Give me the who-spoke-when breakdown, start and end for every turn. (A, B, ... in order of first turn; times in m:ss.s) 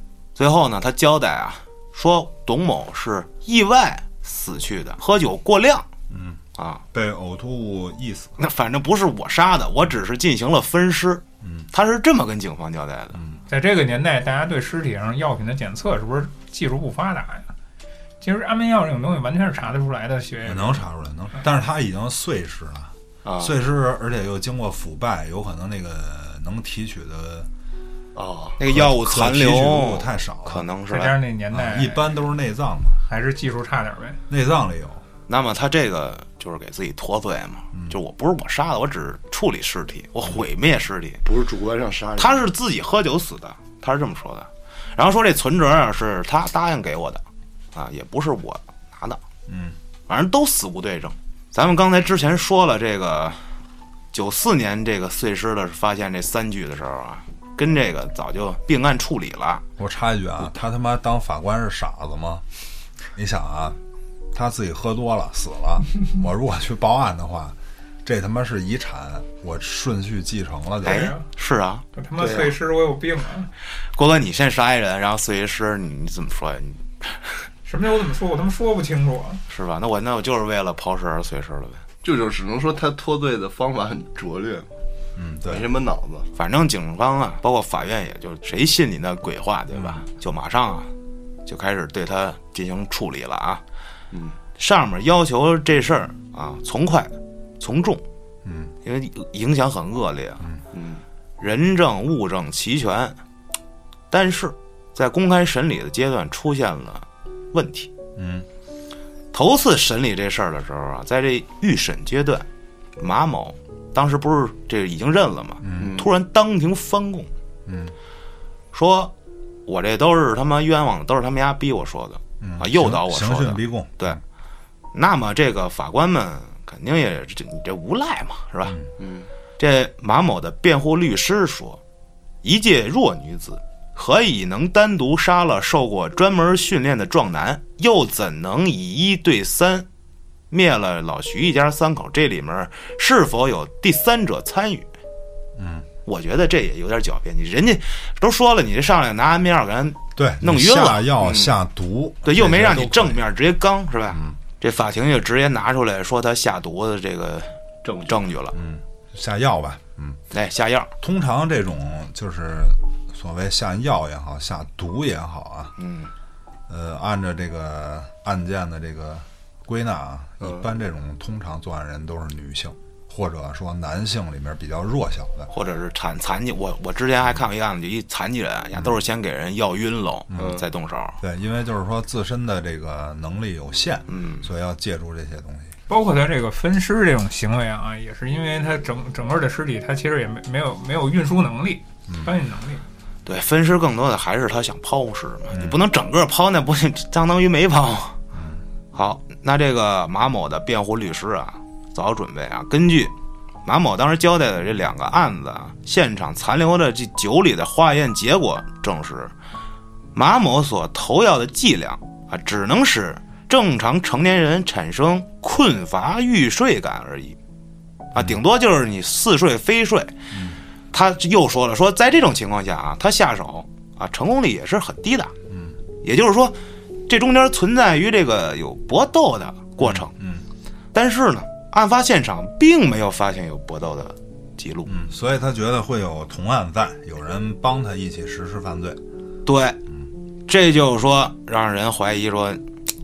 0:00.4-0:05.9 A
0:06.1-0:06.4 B
0:06.6-0:06.8 A
0:06.9-0:08.4 B
0:08.4-0:13.2 A
0:11.4-0:11.7 B
0:13.1-0:13.4 B
0:13.5-0:17.5 C
0:18.2-0:20.8 C
0:20.4-0:27.5 B
0:23.2-0:23.5 A
0:28.1-0:28.6 D
0:28.6-0:31.1 A
0:28.7-0:30.6 B
0:30.9-0:32.1 C
0:31.5-0:33.0 B
0:33.0-0:34.2 C
0:34.3-0:35.0 B
0:35.3-0:41.2 A
0:41.2-0:42.4 D
0:42.2-0:47.2 A
0:47.7-0:49.2 A
0:49.5-0:49.8 B
0:50.1-0:53.5 A
0:54.1-0:59.6 A
0:59.8-1:02.4 B
1:03.1-1:03.8 B
1:04.3-1:11.1 B
1:10.8-1:12.5 A
1:10.8-1:11.3 C
1:11.9-1:13.5 C
1:13.9-1:17.5 A
1:17.6-1:19.4 C
1:19.5-1:21.8 A
1:22.0-1:24.7 D
1:25.2-1:25.7 B
1:25.5-1:26.3 D
1:26.3-1:30.9 A
1:31.4-1:33.6 A
1:34.1-1:34.4 D
1:34.6-1:38.0 A
1:38.4-1:38.7 B
1:38.8-1:40.5 A
1:40.7-1:41.0 D
1:41.4-1:43.2 A
1:44.1-1:47.9 A
1:48.2-1:48.5 B
1:49.3-1:52.4 A
1:53.0-1:57.3 A
1:55.6-1:56.0 B
1:55.8-1:56.1 D
1:57.6-1:57.9 B
1:58.7-1:59.1 A
1:59.6-2:04.2 A
2:02.4-2:04.2 B
2:04.9-2:08.8 A
2:09.0-2:09.3 D
2:09.6-2:11.8 A
2:12.4-2:19.9 A
2:20.5-2:24.9 A
2:25.6-2:25.9 B
2:26.0-2:31.1 A
2:30.2-2:33.2 B
2:31.2-2:31.5 D
2:32.2-2:38.6 A
2:34.1-2:34.4 B
2:37.8-2:38.2 D
2:38.5-2:40.2 B
2:40.3-2:40.9 A
2:41.0-2:45.7 B
2:45.8-2:46.1 A
2:46.7-2:55.5 B
2:55.5-3:01.2 A
3:00.3-3:00.6 B
3:00.3-3:00.6 D
3:01.2-3:05.7 B
3:04.1-3:04.5 A
3:05.9-3:12.8 C
3:13.2-3:18.2 A
3:15.5-3:15.8 B
3:18.3-3:18.6 B
3:18.9-3:23.1 A
3:23.6-3:29.3 A
3:30.1-3:37.4 A
3:38.1-3:40.1 A
3:40.3-3:40.6 B
3:40.9-3:45.3 A
3:45.5-3:45.8 B
3:46.0-3:46.6 A
3:47.1-3:50.1 A
3:49.8-3:50.4 B
3:50.9-3:54.9 A
3:54.9-3:59.0 B
3:59.4-3:59.8 A
4:00.5-4:02.6 A